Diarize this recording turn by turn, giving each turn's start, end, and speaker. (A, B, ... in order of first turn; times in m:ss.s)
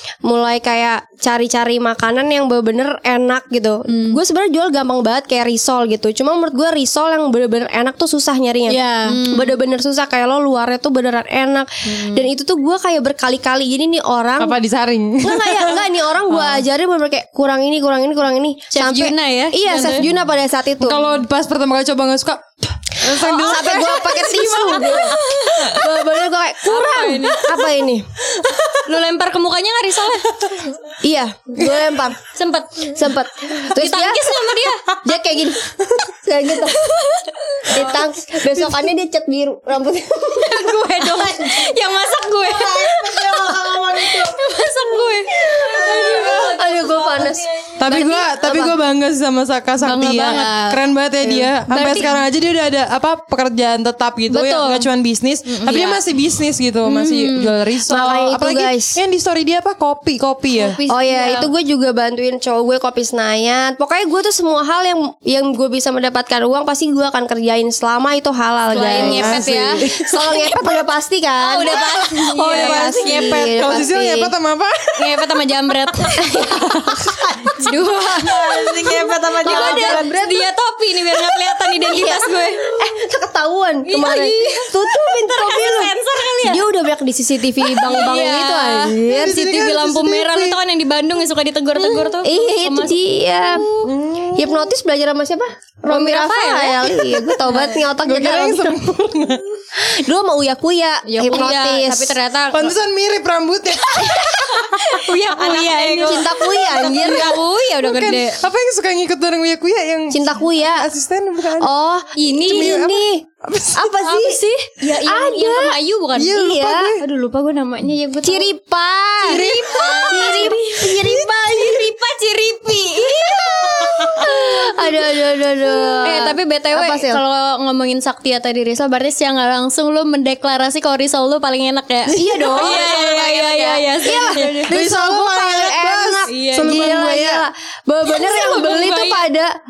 0:00.2-0:08.8 A
0:03.9-0:04.2 B
0:08.7-0:09.2 B
0:09.0-0:09.6 C
0:09.3-0:14.5 A
0:11.8-0:12.3 C
0:14.4-0:15.9 D
0:15.2-0:21.0 A
0:18.7-0:20.1 C
0:20.8-0:25.4 D
0:23.0-0:28.0 A
0:23.4-0:25.8 C
0:26.6-0:27.7 C
0:28.4-0:28.8 D
0:28.8-0:30.4 C
0:31.0-0:32.2 A
0:32.3-0:33.0 C
0:32.9-0:34.2 A
0:33.6-0:34.9 C
0:35.0-0:35.6 A
0:36.2-0:36.8 A
0:36.9-0:38.0 C
0:37.7-0:41.6 A
0:40.4-0:48.7 C
0:42.6-0:44.4 A
0:45.4-0:48.0 A
0:46.0-0:46.5 D
0:46.7-0:47.1 B
0:47.8-1:00.8 D
0:49.8-0:50.8 C
0:51.7-0:52.1 C
0:54.3-0:54.9 C
0:55.5-0:56.0 C
0:56.8-0:57.5 C
0:57.9-0:59.0 A
1:00.5-1:01.5 C
1:00.9-1:12.0 A
1:08.7-1:10.6 C
1:08.8-1:10.3 D
1:08.8-1:09.1 B
1:11.4-1:13.2 C
1:11.7-1:15.2 D
1:12.2-1:13.7 B
1:12.6-1:14.3 A
1:15.0-1:16.5 C
1:16.2-1:17.2 A
1:16.5-1:17.2 D
1:17.6-1:22.8 C
1:18.2-1:20.1 B
1:19.4-1:20.4 A
1:21.8-1:29.4 A
1:23.8-1:26.6 C
1:27.6-1:33.9 C
1:27.9-1:28.5 B
1:29.0-1:30.6 D
1:32.1-1:33.7 A
1:33.8-1:34.7 D
1:34.4-1:38.8 A
1:35.9-1:37.8 C
1:38.0-1:39.4 D
1:39.8-1:42.2 A
1:41.1-1:42.7 C
1:42.5-1:51.7 D
1:43.9-1:48.4 C
1:46.0-1:47.4 A
1:50.1-1:50.9 A
1:51.6-1:53.2 A
1:52.2-1:52.9 C
1:52.4-1:54.0 D
1:53.7-1:55.8 A
1:54.0-1:58.5 C
1:56.1-1:57.0 D
1:56.3-1:56.9 A
1:58.2-1:59.5 A
1:59.2-2:00.6 D
1:59.2-2:05.1 C
2:00.0-2:01.9 A
2:02.9-2:07.2 A
2:06.0-2:14.8 C
2:12.1-2:19.5 A
2:12.5-2:13.2 B
2:14.7-2:17.4 D
2:16.3-2:17.0 C
2:18.0-2:19.2 C